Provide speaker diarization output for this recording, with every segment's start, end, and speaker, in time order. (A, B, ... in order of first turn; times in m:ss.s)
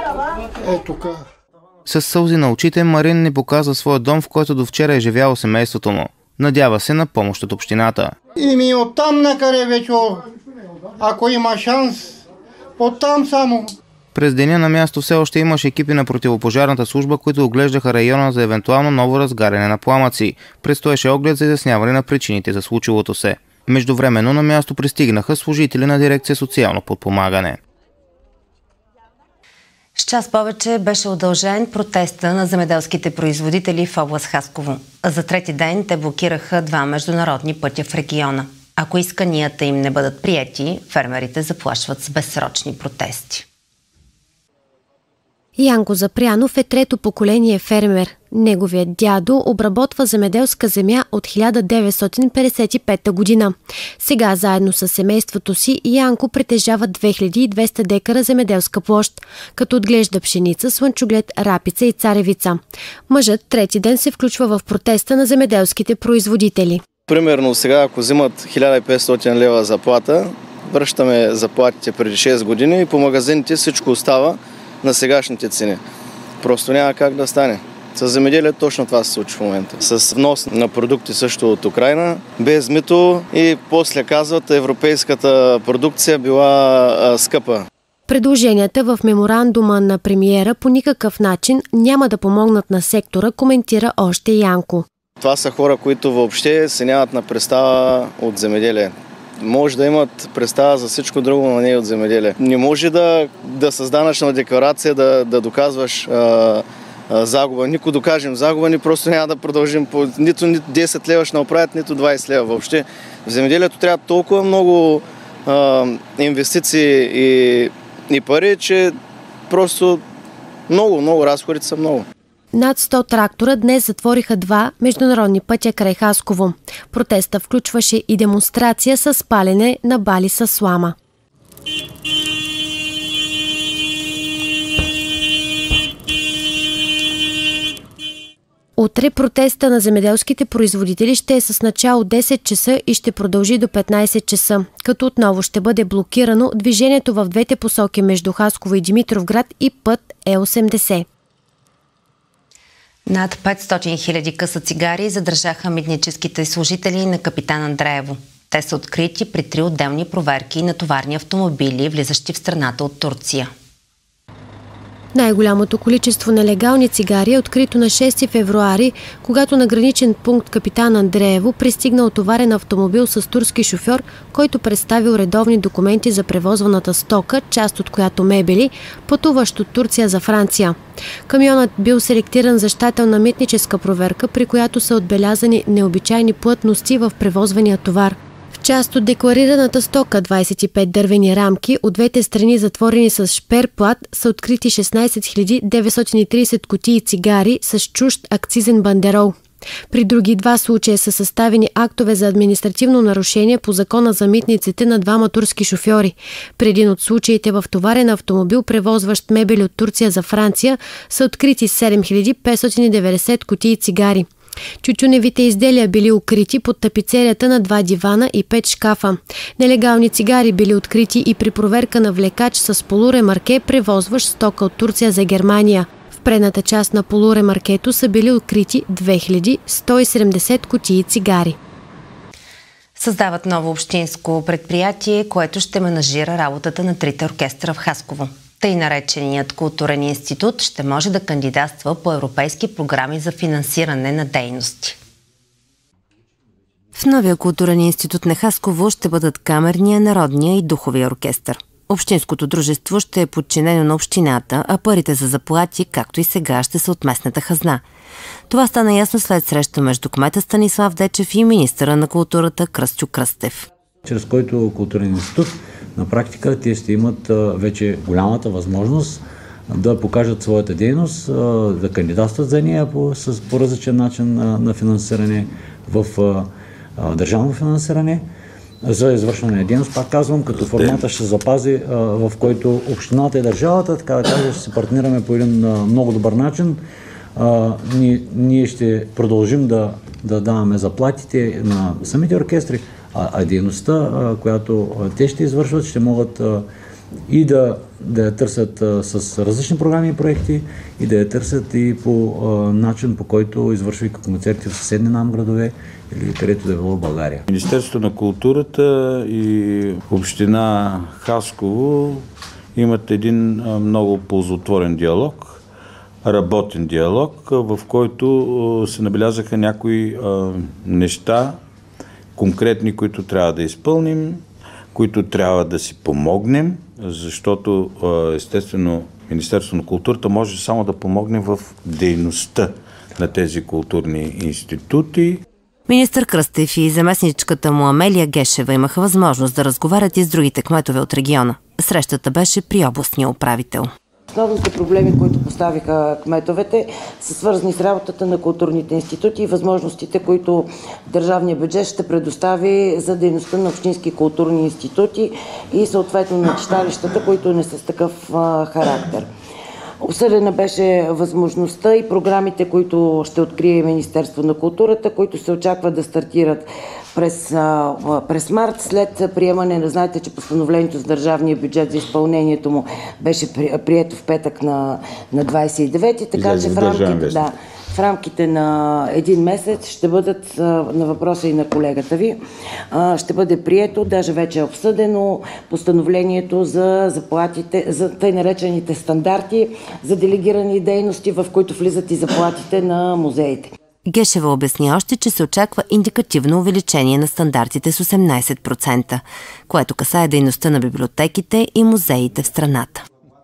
0:00.6-0:01.2 A
0:01.9-0:08.1 B
0:08.4-0:10.2 A
0:11.0-0:12.2 A
0:12.8-0:13.7 A
0:14.1-0:27.6 B
0:30.0-0:43.4 C
0:45.6-1:06.8 D
1:07.1-1:15.8 E
1:16.4-1:27.7 E
1:28.1-1:34.9 D
1:35.2-1:59.0 E
1:59.5-2:00.0 E
2:00.7-2:02.0 E
2:02.5-2:11.0 D
2:18.8-2:31.1 D
2:33.1-2:43.5 C
2:45.1-3:19.4 D
3:19.9-3:34.3 D
3:34.8-3:51.6 D
3:53.0-4:05.0 C
4:07.0-4:17.8 C
4:18.5-4:23.7 C
4:24.0-4:38.2 F
4:38.8-4:46.8 F
4:40.6-4:41.0 G
4:47.4-4:56.7 F
4:57.3-5:07.4 F
5:07.5-5:15.6 G
5:16.2-5:21.6 G
5:22.4-5:35.4 G
5:35.9-5:43.9 C
5:44.4-5:59.2 H
6:00.0-6:06.6 H
6:07.2-6:22.4 H
6:16.3-6:17.5 G
6:23.0-6:33.7 H
6:34.1-6:43.0 C